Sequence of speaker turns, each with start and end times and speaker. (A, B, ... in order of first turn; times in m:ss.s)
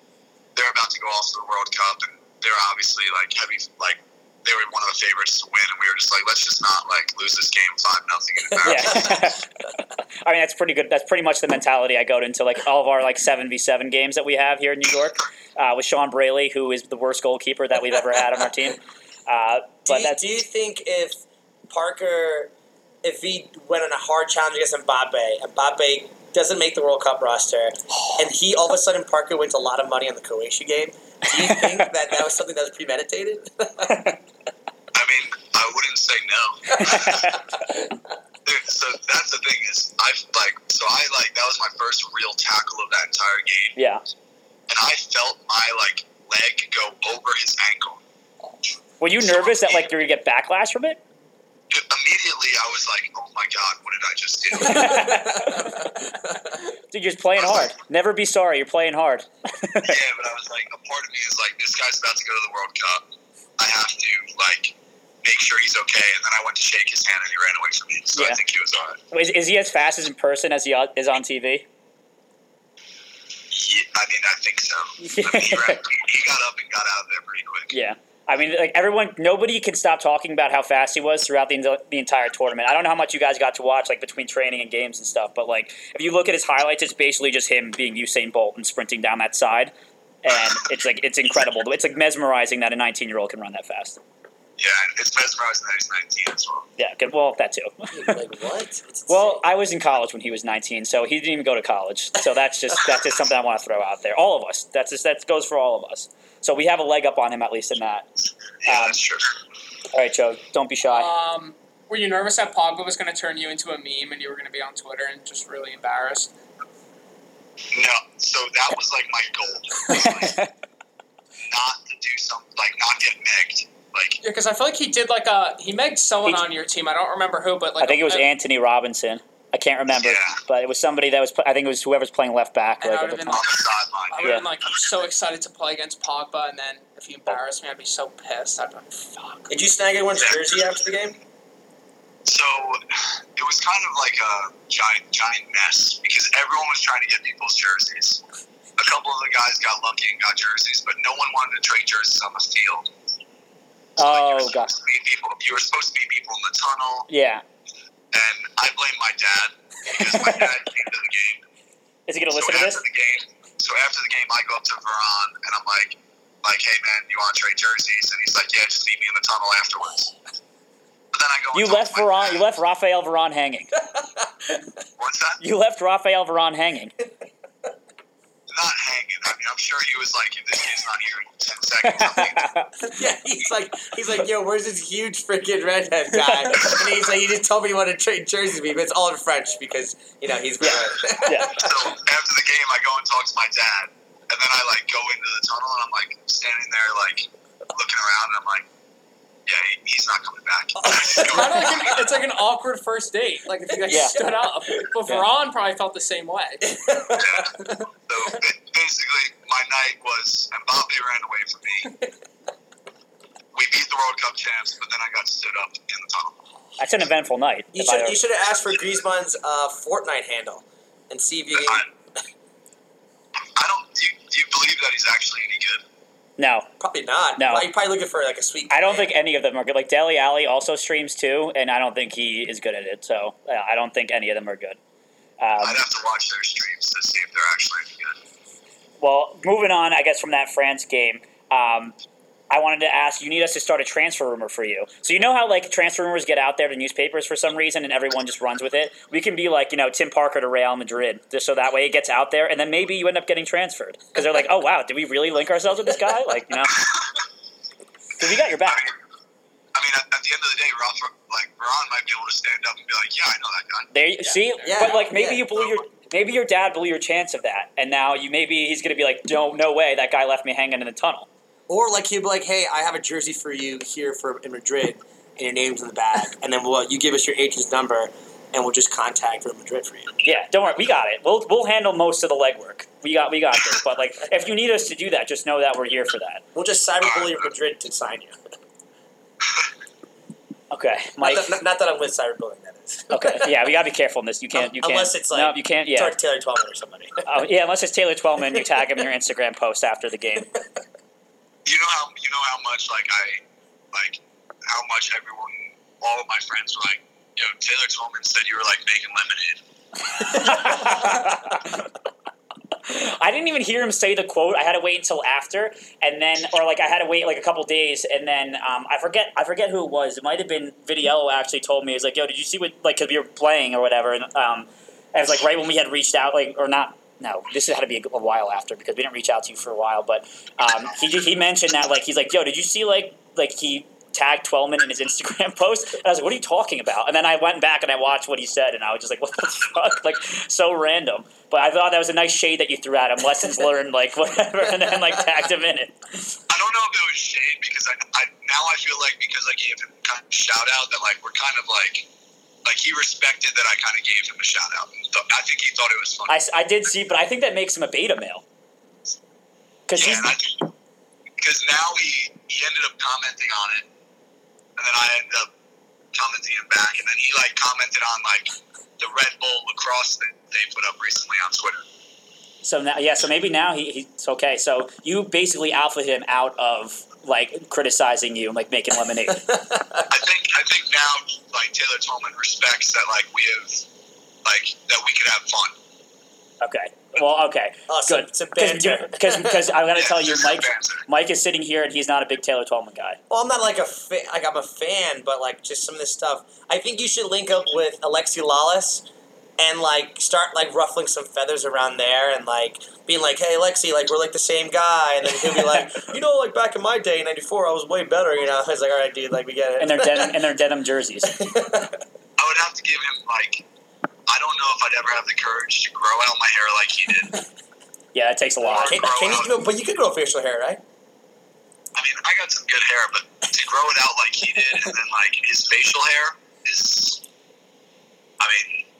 0:00.5-0:09.3 A
0:08.6-0:09.5 B
0:10.2-0:20.3 B
0:19.8-0:22.5 C
0:23.0-0:34.1 C
0:33.9-0:34.2 B
0:34.9-0:37.4 A
0:36.8-0:37.4 B
0:38.4-0:43.8 A
0:43.8-0:44.0 B
0:44.7-0:48.0 A
0:49.0-0:51.0 B
0:49.2-0:49.9 A
0:51.7-0:55.8 A
0:54.6-0:56.0 B
0:56.9-1:00.0 B
0:57.4-0:57.7 A
0:59.8-1:03.1 A
1:03.6-1:09.0 A
1:08.1-1:08.4 B
1:09.1-1:11.6 B
1:13.5-1:17.7 A
1:15.0-1:15.8 B
1:17.7-1:29.7 B
1:30.2-1:34.0 B
1:34.6-1:36.7 A
1:36.8-1:38.2 B
1:37.9-1:39.4 C
1:39.1-1:48.1 B
1:48.6-1:49.3 A
1:48.6-1:49.0 B
1:49.9-1:51.1 B
1:50.9-1:56.3 D
1:57.7-2:00.4 A
1:59.9-2:00.5 B
2:01.5-2:04.2 A
2:04.2-2:08.2 D
2:07.8-2:13.4 B
2:10.0-2:10.4 A
2:12.8-2:19.4 D
2:13.3-2:14.4 A
2:14.2-2:14.5 B
2:19.5-2:21.2 C
2:22.2-2:22.8 A
2:23.4-2:28.2 A
2:28.8-2:32.9 A
2:34.0-2:34.7 B
2:34.0-2:37.1 A
2:37.1-2:37.4 B
2:38.1-2:41.4 A
2:39.9-2:40.6 B
2:42.1-2:42.8 B
2:42.4-2:50.1 A
2:51.1-2:52.4 A
2:51.5-2:53.8 B
2:55.0-2:55.4 A
2:55.4-2:56.9 B
2:58.5-3:02.5 A
3:01.8-3:03.0 B
3:02.9-3:11.9 C
3:10.6-3:11.6 B
3:11.4-3:18.7 A
3:19.4-3:22.0 A
3:20.8-3:21.8 C
3:21.2-3:27.0 D
3:23.7-3:24.8 C
3:23.9-3:24.2 B
3:26.6-3:27.5 C
3:27.1-3:32.0 A
3:33.5-3:36.4 A
3:36.8-3:38.2 B
3:37.7-3:41.9 C
3:41.6-3:41.9 A
3:43.6-3:45.8 A
3:46.4-3:46.7 B
3:46.8-3:49.0 C
3:47.4-3:47.7 B
3:48.7-3:54.8 B
3:55.4-3:55.8 B
3:55.6-3:58.2 A
3:59.0-4:01.9 B
4:02.5-4:16.9 B
4:18.2-4:18.8 B
4:18.6-4:18.9 A
4:19.7-4:23.9 A
4:23.9-4:31.3 B
4:24.6-4:25.5 C
4:24.6-4:24.9 D
4:31.7-4:40.2 C
4:40.2-4:46.4 B
4:46.5-4:48.4 C
4:50.7-4:51.5 B
4:51.2-4:53.6 C
4:53.1-4:56.2 B
4:54.5-4:57.3 C
4:57.2-5:00.5 B
5:01.6-5:03.4 A
5:03.9-5:09.6 A
5:10.2-5:11.9 B
5:10.2-5:10.9 A
5:12.8-5:46.0 B
5:46.5-5:52.0 A
5:52.6-5:56.4 A
5:56.3-5:58.4 B
5:59.9-6:00.3 B
5:59.9-6:00.7 A
6:01.4-6:03.8 A
6:04.8-6:05.5 A
6:06.1-6:11.8 A
6:12.6-6:19.6 B
6:19.5-6:20.0 C
6:20.1-6:23.8 A
6:24.4-6:25.8 A
6:26.6-6:33.2 B
6:27.9-6:29.7 C
6:29.9-6:31.0 A
6:33.3-6:39.0 C
6:39.6-6:50.4 C
6:49.8-6:51.4 B
6:51.3-6:52.0 C
6:52.4-6:53.6 A
6:54.3-6:57.4 A
6:58.1-6:59.0 B
6:58.6-6:59.5 A
6:58.6-7:00.8 C
7:01.9-7:07.2 A
7:08.4-7:08.8 A